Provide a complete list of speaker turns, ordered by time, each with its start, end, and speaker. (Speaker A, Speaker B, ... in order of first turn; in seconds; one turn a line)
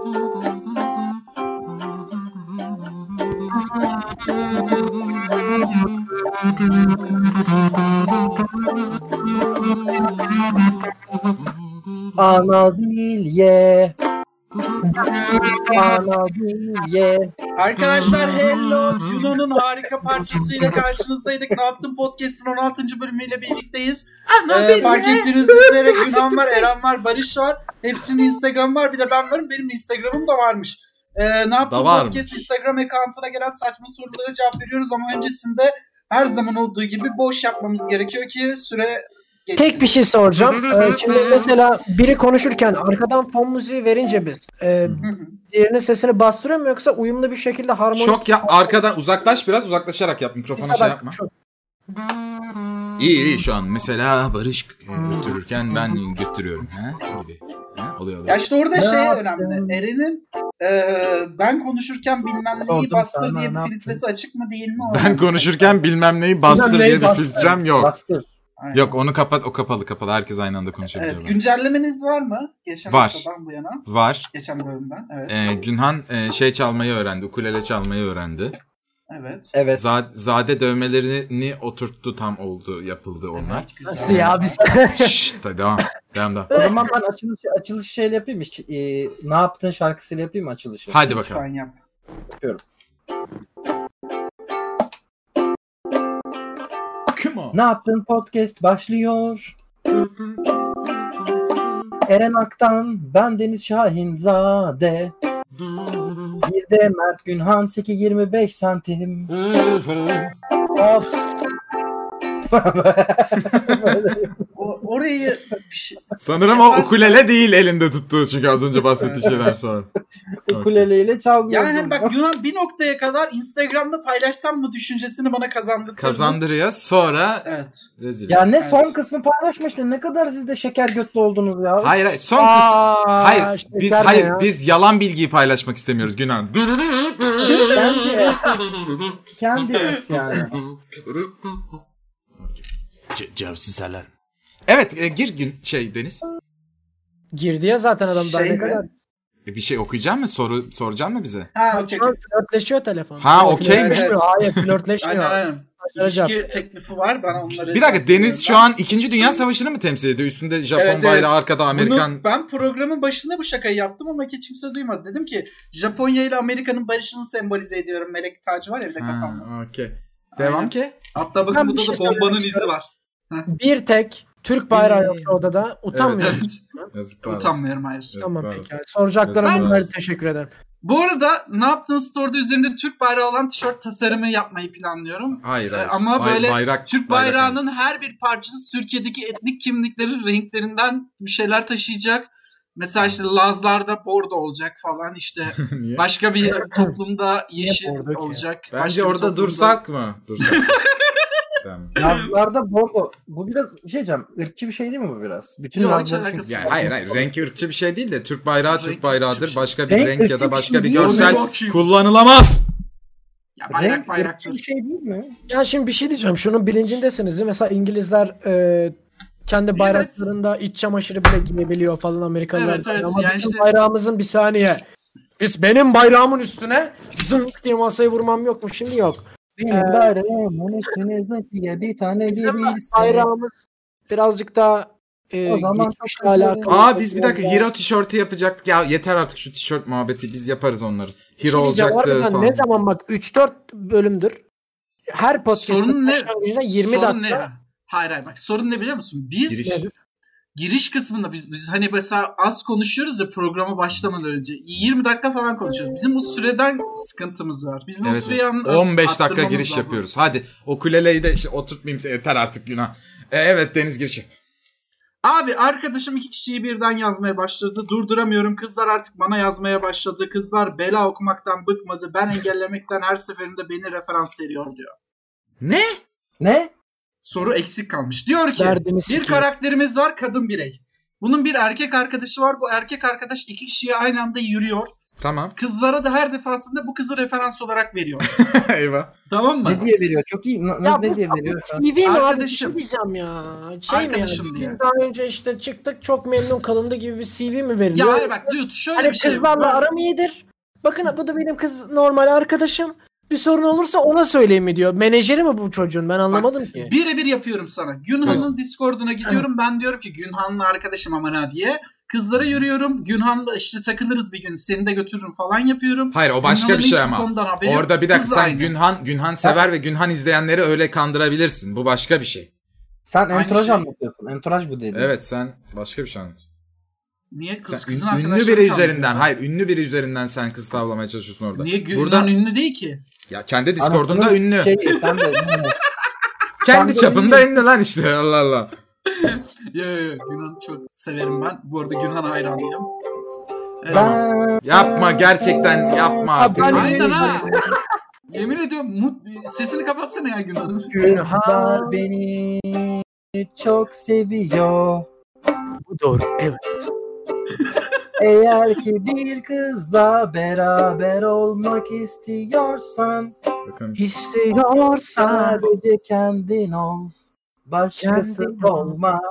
Speaker A: 12.2-13.9
Speaker B: 14.9-15.8
Speaker A: 15.5-17.3
Speaker C: 17.6-40.0
Speaker D: 24.3-26.2
Speaker D: 31.6-32.4
Speaker B: 39.6-48.8
Speaker C: 45.0-45.4
Speaker D: 48.0-51.2
Speaker B: 50.5-51.3
Speaker D: 53.0-58.5
Speaker C: 58.3-65.8
Speaker A: 58.8-59.8
Speaker A: 62.6-64.0
Speaker D: 64.8-67.9
Speaker A: 66.5-68.3
Speaker B: 66.5-67.5
Speaker C: 68.6-69.0
Speaker D: 68.7-71.3
Speaker C: 70.9-75.4
Speaker D: 72.9-73.3
Speaker D: 73.9-74.3
Speaker D: 75.3-78.6
Speaker C: 79.1-79.5
Speaker A: 79.5-79.8
Speaker D: 79.7-84.4
Speaker C: 83.3-84.6
Speaker B: 83.8-85.4
Speaker D: 84.9-86.5
Speaker B: 86.5-86.8
Speaker A: 86.5-91.0
Speaker D: 90.9-91.4
Speaker C: 91.1-91.8
Speaker D: 97.1-97.6
Speaker A: 97.5-99.5
Speaker A: 102.1-105.1
Speaker A: 106.4-109.3
Speaker A: 110.8-111.2
Speaker A: 112.5-114.3
Speaker D: 113.4-113.8
Speaker C: 114.5-117.2
Speaker D: 116.2-119.9
Speaker C: 119.0-119.5
Speaker A: 120.5-122.2
Speaker D: 120.5-120.9
Speaker C: 121.5-126.4
Speaker D: 126.0-128.5
Speaker C: 127.5-127.8
Speaker A: 128.3-132.0
Speaker C: 128.6-128.9
Speaker D: 131.8-136.8
Speaker B: 132.4-134.5
Speaker A: 133.9-134.2
Speaker A: 137.6-138.5
Speaker A: 139.3-140.6
Speaker D: 142.4-144.1
Speaker D: 144.7-146.2
Speaker B: 147.3-148.9
Speaker C: 148.1-148.8
Speaker D: 149.5-151.5
Speaker C: 151.6-152.2
Speaker B: 151.7-156.5
Speaker D: 153.2-154.7
Speaker C: 153.4-154.3
Speaker C: 155.0-158.7
Speaker D: 157.5-162.2
Speaker C: 159.2-159.4
Speaker C: 160.8-169.5
Speaker D: 169.0-171.0
Speaker C: 170.4-173.5
Speaker B: 171.5-172.7
Speaker B: 173.5-176.9
Speaker D: 174.7-175.4
Speaker D: 175.9-179.9
Speaker C: 176.2-176.6
Speaker C: 177.2-178.1
Speaker B: 178.2-180.5
Speaker C: 179.4-179.9
Speaker C: 180.8-199.8
Speaker D: 185.4-187.6
Speaker D: 195.6-196.1
Speaker B: 196.4-196.9
Speaker B: 197.6-198.4
Speaker D: 198.7-200.7
Speaker C: 200.4-201.2
Speaker D: 201.6-201.9
Speaker C: 202.0-202.3
Speaker A: 202.0-207.3
Speaker C: 205.8-206.9
Speaker D: 206.4-212.7
Speaker C: 208.7-209.7
Speaker A: 209.9-211.5
Speaker C: 210.9-211.8
Speaker C: 213.6-214.6
Speaker A: 213.7-215.4
Speaker B: 215.5-218.9
Speaker B: 219.5-224.8
Speaker C: 219.8-220.3
Speaker C: 222.5-223.7
Speaker B: 225.4-230.1
Speaker A: 229.6-233.3
Speaker B: 232.3-237.7
Speaker A: 235.5-236.8
Speaker D: 236.7-242.7
Speaker B: 241.4-244.4
Speaker B: 245.1-247.5
Speaker C: 245.5-249.9
Speaker D: 249.5-249.8
Speaker B: 249.6-249.9
Speaker C: 250.6-260.0
Speaker D: 258.0-264.3
Speaker C: 265.2-274.9
Speaker D: 275.6-276.0
Speaker A: 276.4-276.7
Speaker C: 277.2-284.9
Speaker B: 278.6-279.5
Speaker D: 285.2-285.6
Speaker C: 285.6-288.3
Speaker D: 288.2-289.1
Speaker C: 289.3-289.9
Speaker A: 289.6-291.9
Speaker B: 290.8-306.9
Speaker C: 292.0-292.8
Speaker C: 293.9-294.8
Speaker C: 297.9-299.8
Speaker C: 306.3-318.7
Speaker D: 308.2-308.5
Speaker D: 316.1-322.5
Speaker A: 323.1-325.1
Speaker C: 323.3-323.9
Speaker D: 324.9-326.4
Speaker C: 327.3-329.3
Speaker D: 327.7-332.3
Speaker C: 331.6-333.0
Speaker D: 333.3-334.7
Speaker A: 333.8-335.8
Speaker C: 334.9-335.7
Speaker D: 336.6-338.7
Speaker A: 336.7-337.5
Speaker C: 339.1-342.9
Speaker C: 343.8-344.2
Speaker A: 343.9-347.6
Speaker D: 343.9-347.1
Speaker B: 346.4-347.8
Speaker C: 346.7-347.5
Speaker C: 348.3-350.9
Speaker A: 350.8-355.1
Speaker B: 351.0-352.0
Speaker B: 355.9-356.9
Speaker A: 358.2-363.3
Speaker D: 363.6-364.0
Speaker B: 364.0-365.7
Speaker A: 365.2-367.1
Speaker A: 367.7-369.2
Speaker B: 368.0-368.9